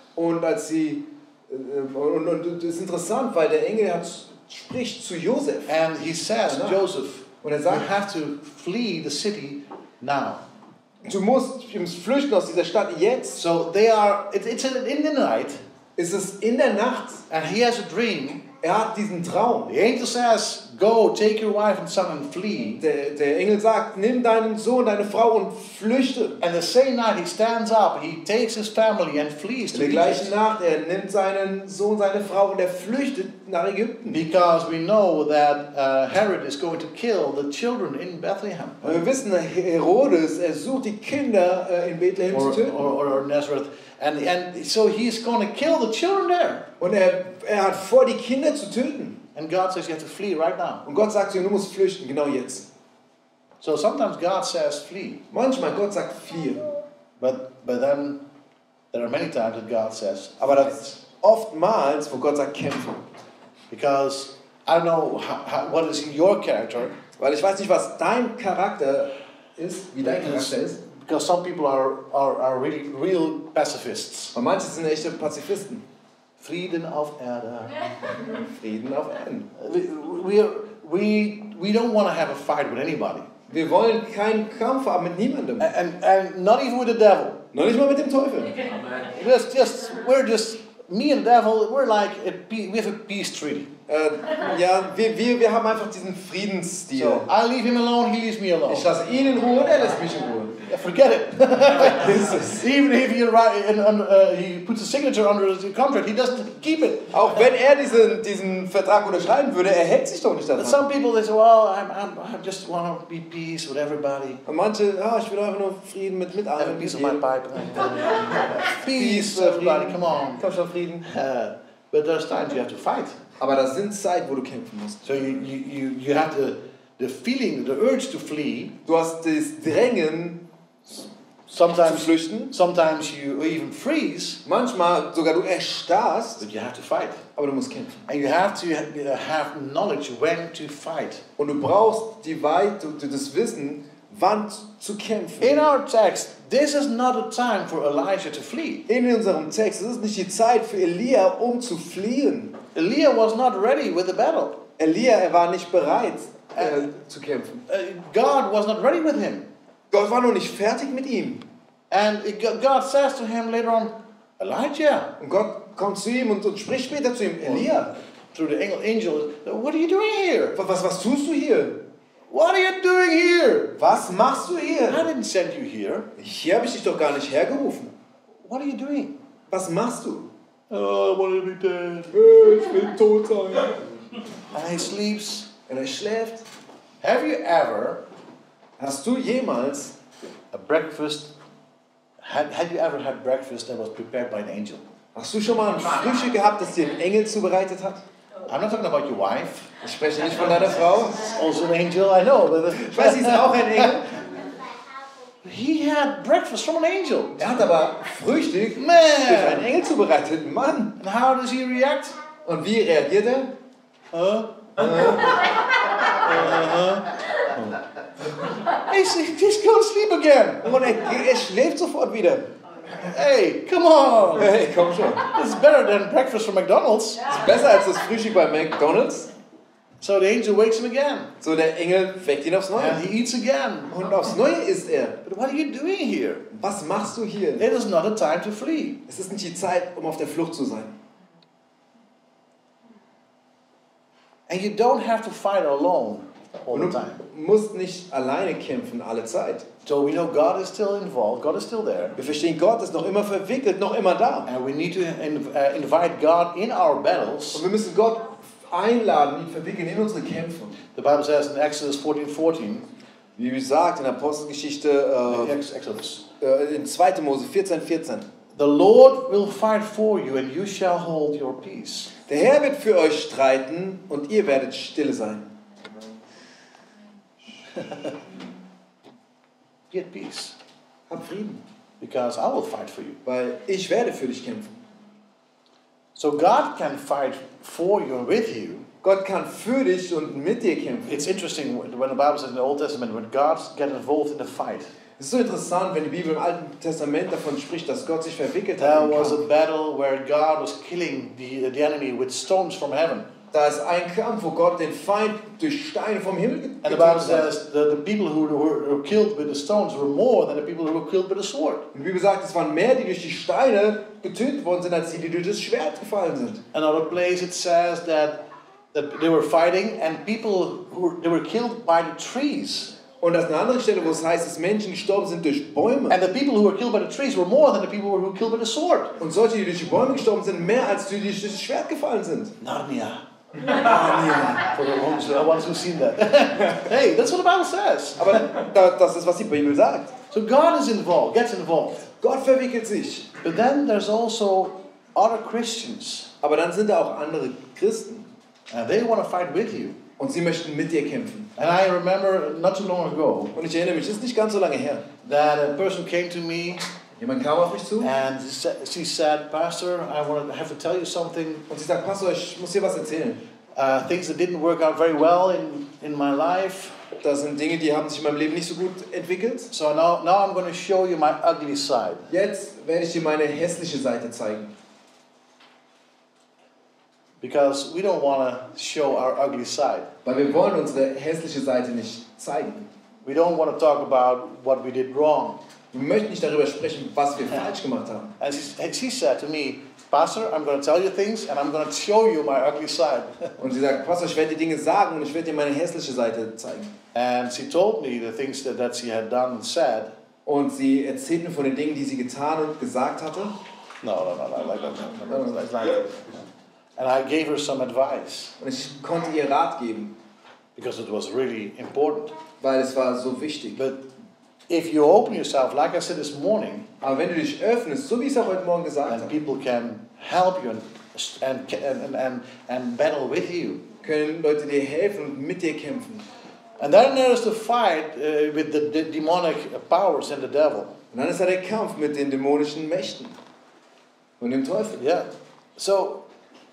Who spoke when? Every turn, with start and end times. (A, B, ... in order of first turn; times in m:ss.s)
0:00.2-0:05.8 A
0:05.7-0:10.4 B
0:06.4-0:06.8 A
0:07.4-0:07.9 A
0:11.0-0:13.4 A
0:13.4-0:15.6 B
0:16.0-0:17.2 A
0:17.3-0:18.4 B
0:18.6-0:19.7 A
0:19.7-0:22.8 B
0:22.8-0:26.4 A
0:26.4-0:30.3 B
0:29.7-0:34.2 A
0:34.1-0:39.0 B
0:38.8-0:42.9 A
0:42.3-0:46.7 B
0:46.8-0:49.2 A
0:49.3-0:50.8 B
0:50.8-0:52.7 A
0:53.6-0:55.2 B
0:55.3-0:56.7 A
0:57.2-0:58.2 B
0:58.9-1:00.7 B
1:00.4-1:03.0 A
1:03.7-1:07.0 B
1:07.2-1:10.8 A
1:10.0-1:14.4 B
1:14.3-1:15.8 A
1:16.4-1:17.9 B
1:18.2-1:19.5 A
1:19.6-1:23.3 B
1:23.5-1:25.7 A
1:25.6-1:27.4 B
1:27.5-1:28.6 A
1:29.0-1:33.7 B
1:33.9-1:37.3 A
1:36.9-1:38.9 B
1:38.7-1:40.6 A
1:40.7-1:47.2 B
1:41.8-1:42.7 A
1:47.1-1:50.8 A
1:50.6-1:54.4 B
1:54.4-1:57.2 A
1:56.6-2:00.4 B
1:58.7-2:01.1 A
2:01.0-2:03.2 B
2:03.4-2:05.4 A
2:05.0-2:08.7 B
2:08.8-2:11.0 A
2:11.5-2:14.4 B
2:11.8-2:12.5 A
2:14.4-2:16.4 A
2:16.4-2:17.2 B
2:17.4-2:18.0 A
2:18.1-2:21.2 B
2:21.4-2:25.7 A
2:25.4-2:28.8 B
2:28.9-2:32.5 A
2:32.7-2:34.6 B
2:34.8-2:37.6 A
2:36.6-2:36.8 B
2:37.7-2:39.5 B
2:39.9-2:41.4 A
2:41.9-2:45.1 B
2:45.2-2:47.9 A
2:47.4-2:50.6 B
2:50.5-2:51.8 A
2:52.3-2:53.8 B
2:53.8-2:55.0 A
2:54.9-2:56.1 B
2:56.2-2:57.9 A
2:58.4-2:59.1 B
2:59.5-3:00.3 A
3:00.7-3:02.2 B
3:02.1-3:03.8 A
3:04.5-3:05.5 B
3:05.7-3:06.4 A
3:07.0-3:08.0 B
3:08.8-3:10.0 A
3:10.5-3:11.3 B
3:12.2-3:14.8 B
3:15.1-3:18.0 A
3:18.4-3:19.7 B
3:19.8-3:21.3 A
3:21.2-3:23.9 B
3:22.7-3:24.1 A
3:25.4-3:27.6 B
3:27.4-3:31.0 A
3:28.8-3:29.7 B
3:31.0-3:32.2 B
3:32.4-3:33.5 A
3:34.1-3:35.1 B
3:34.8-3:35.4 A
3:36.0-3:37.8 B
3:38.7-3:40.6 B
3:40.6-3:42.4 A
3:42.9-3:44.5 B
3:44.4-3:45.2 A
3:45.3-3:47.3 B
3:47.2-3:49.3 A
3:50.0-3:51.3 B
3:51.4-3:53.0 A
3:52.7-3:53.9 B
3:53.9-3:55.2 A
3:55.2-3:56.4 B
3:56.5-3:57.7 A
3:57.6-3:59.0 B
3:59.1-4:00.9 A
4:04.5-4:07.2 B
4:06.7-4:09.6 A
4:09.8-4:12.2 B
4:12.2-4:14.5 A
4:14.5-4:17.6 B
4:17.5-4:20.8 A
4:20.9-4:22.8 B
4:23.4-4:25.6 A
4:25.2-4:26.2 B
4:26.4-4:28.3 A
4:28.5-4:32.1 B
4:32.3-4:35.5 A
4:37.8-4:38.2 B
4:39.9-4:40.5 B
4:41.1-4:41.6 A
4:42.0-4:43.2 B
4:43.2-4:44.7 A
4:46.1-4:48.8 B
4:49.0-4:51.2 A
4:51.1-4:54.9 B
4:55.2-4:59.4 A
4:58.8-5:03.3 B
5:03.5-5:07.5 A
5:06.8-5:11.8 B
5:11.9-5:16.6 A
5:16.7-5:18.4 B
5:18.9-5:23.0 B
5:23.2-5:26.2 A
5:26.1-5:29.1 B
5:29.2-5:32.6 A
5:32.6-5:33.2 B
5:33.6-5:34.7 A
5:34.5-5:38.5 B
5:38.2-5:40.1 A
5:40.3-5:42.1 B
5:42.2-5:43.3 A
5:43.4-5:46.3 B
5:46.4-5:48.3 A
5:48.7-5:50.0 B
5:50.2-5:51.5 A
5:51.6-5:53.5 B
5:53.5-5:55.0 A
5:55.2-5:56.8 B
5:57.2-5:58.1 A
5:58.0-6:01.6 B
6:01.7-6:03.4 A
6:03.8-6:07.0 B
6:07.2-6:09.7 A
6:09.7-6:12.2 B
6:12.3-6:14.7 A
6:17.4-6:20.1 B
6:20.2-6:22.9 A
6:23.2-6:25.6 B
6:25.9-6:28.3 A
6:28.4-6:33.5 B
6:33.6-6:36.9 A
6:37.1-6:40.1 B
6:40.4-6:43.5 A
6:44.0-6:46.4 B
6:45.3-6:45.9 A
6:47.0-6:48.5 B
6:48.6-6:50.1 A
6:50.8-6:52.3 B
6:52.6-6:53.8 A
6:53.8-6:54.0 B
6:54.7-6:56.9 B
6:57.0-6:59.3 A
6:59.1-7:03.8 B
7:04.0-7:06.2 A
7:06.8-7:10.9 B
7:11.1-7:13.4 A
7:14.4-7:15.0 A
7:15.0-7:16.2 B